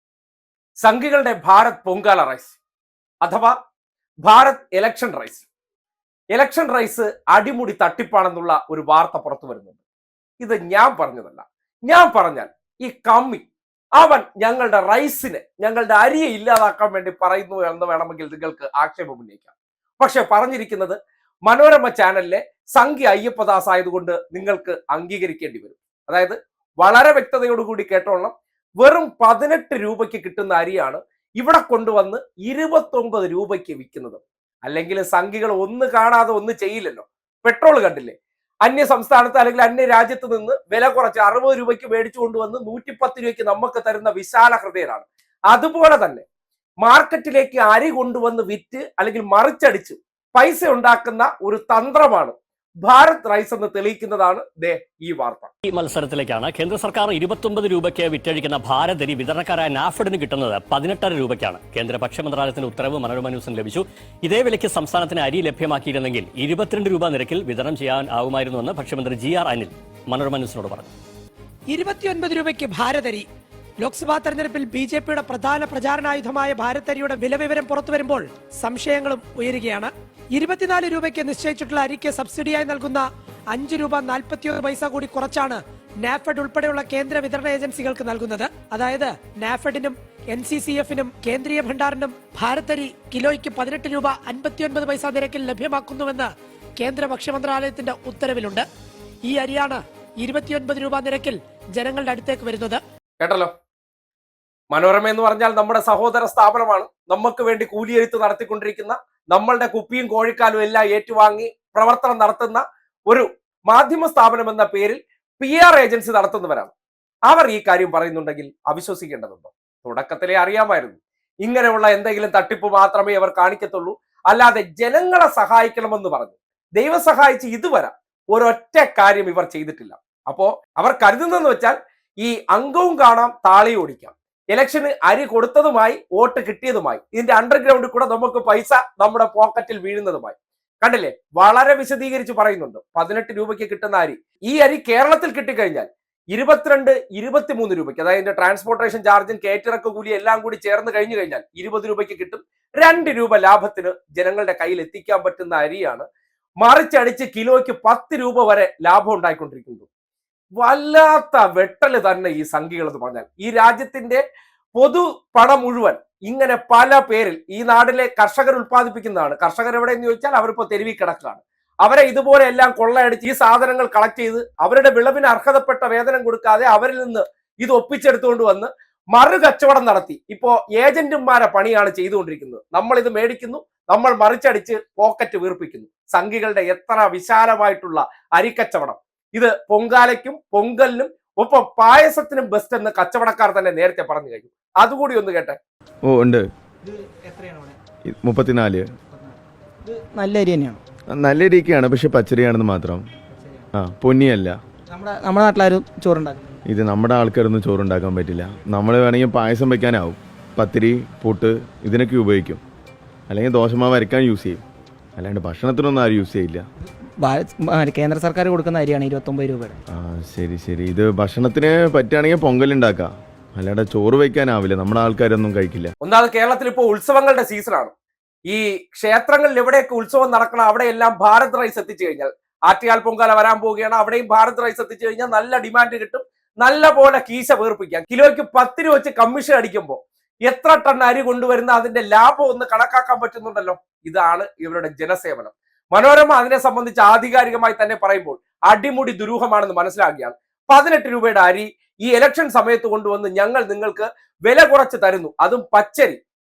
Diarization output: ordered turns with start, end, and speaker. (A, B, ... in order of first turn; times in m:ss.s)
0:00.8-0:02.5 A
0:03.2-0:03.6 A
0:04.2-0:05.4 A
0:06.3-0:09.8 A
0:10.4-0:13.5 A
0:14.0-0:46.2 A
0:46.8-0:55.5 A
0:55.7-1:10.9 B
1:11.7-1:13.3 C
1:13.8-1:38.6 C
1:39.3-1:42.8 C
1:43.2-1:43.5 A
1:44.7-1:56.7 A
1:57.3-2:36.1 A
2:36.6-2:39.9 A
2:40.6-2:44.2 A
2:44.8-3:15.6 A
3:16.1-3:16.4 D
3:16.9-3:17.8 E
3:18.1-3:18.8 D
3:19.8-3:20.8 E
3:21.1-3:23.0 D
3:23.4-3:23.7 E
3:23.8-3:24.6 D
3:24.9-3:26.4 E
3:26.7-3:32.6 D
3:33.3-3:34.6 D
3:35.2-3:36.6 D
3:37.2-3:39.8 E
3:39.9-3:45.9 D
3:46.0-3:47.9 A
3:48.5-4:16.2 A